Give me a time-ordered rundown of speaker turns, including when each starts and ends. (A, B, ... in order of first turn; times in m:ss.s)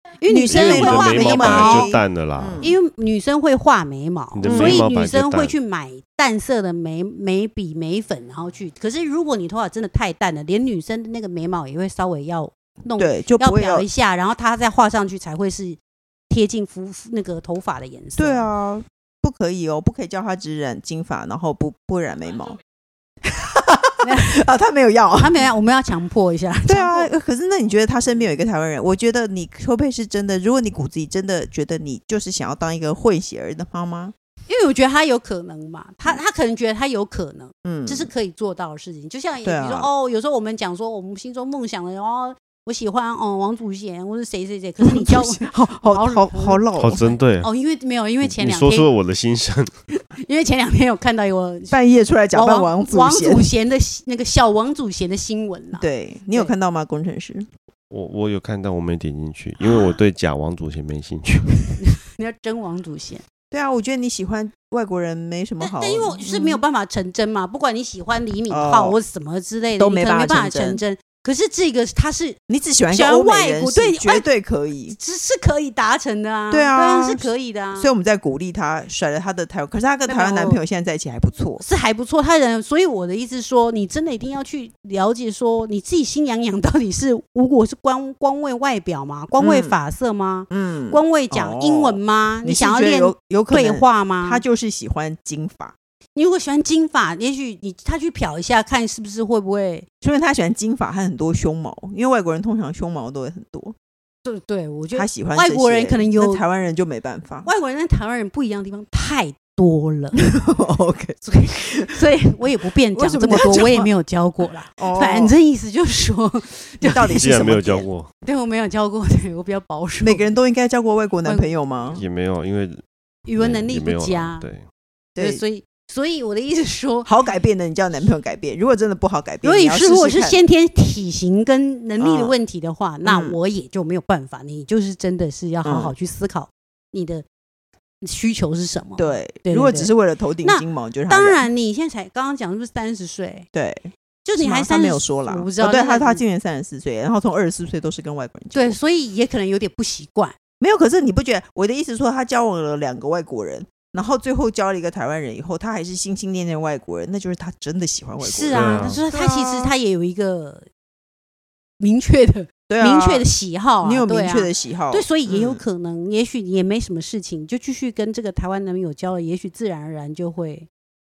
0:00.2-0:01.9 A
0:00.3-0:02.7 B
0:00.5-0:02.6 C
0:02.6-0:18.4 A
0:04.3-0:05.5 C
0:04.4-0:04.8 B
0:13.0-0:13.8 B
0:18.2-0:22.6 B
0:23.2-0:25.4 B
0:24.0-0:24.4 A
0:25.2-0:27.1 A
0:26.7-0:34.1 B
0:34.5-0:48.9 A
0:37.6-0:38.1 B
0:39.4-0:39.9 B
0:44.8-0:47.0 B
0:46.8-0:47.5 C
0:48.2-0:49.7 C
0:50.2-0:51.8 A
0:51.7-0:53.5 B
0:52.3-0:56.5 A
0:55.7-0:57.5 B
0:57.9-1:01.8 C
1:01.8-1:03.2 A
1:03.5-1:06.6 B
1:05.6-1:12.4 A
1:08.5-1:09.0 B
1:09.8-1:10.8 B
1:12.5-1:15.0 B
1:12.9-1:14.2 A
1:14.9-1:17.9 A
1:16.5-1:21.6 B
1:20.1-1:20.6 A
1:21.6-1:34.4 A
1:29.4-1:29.7 B
1:30.5-1:35.7 B
1:36.2-1:39.9 A
1:40.0-1:43.8 B
1:44.2-1:46.4 A
1:44.9-1:47.5 B
1:47.4-1:50.3 A
1:50.2-1:52.0 B
1:51.2-1:57.2 A
1:52.9-1:53.9 B
1:54.7-1:55.3 B
1:56.8-1:57.9 B
1:57.0-1:58.1 C
1:58.2-2:00.2 A
2:00.0-2:02.0 B
2:01.2-2:01.5 A
2:01.9-2:02.8 C
2:03.2-2:04.5 A
2:03.4-2:04.6 C
2:05.1-2:05.4 B
2:05.2-2:07.1 A
2:07.0-2:10.4 B
2:09.4-2:17.2 A
2:12.0-2:12.3 B
2:13.0-2:13.4 B
2:15.6-2:15.9 B
2:18.0-2:19.9 A
2:19.0-2:21.5 B
2:20.4-2:23.5 A
2:23.5-2:28.8 B
2:24.2-2:26.2 A
2:28.5-2:30.4 A
2:30.6-2:39.7 B
2:38.2-2:40.7 A
2:38.5-2:39.0 C
2:41.8-2:50.7 A
2:42.7-2:43.3 B
2:43.8-2:45.6 B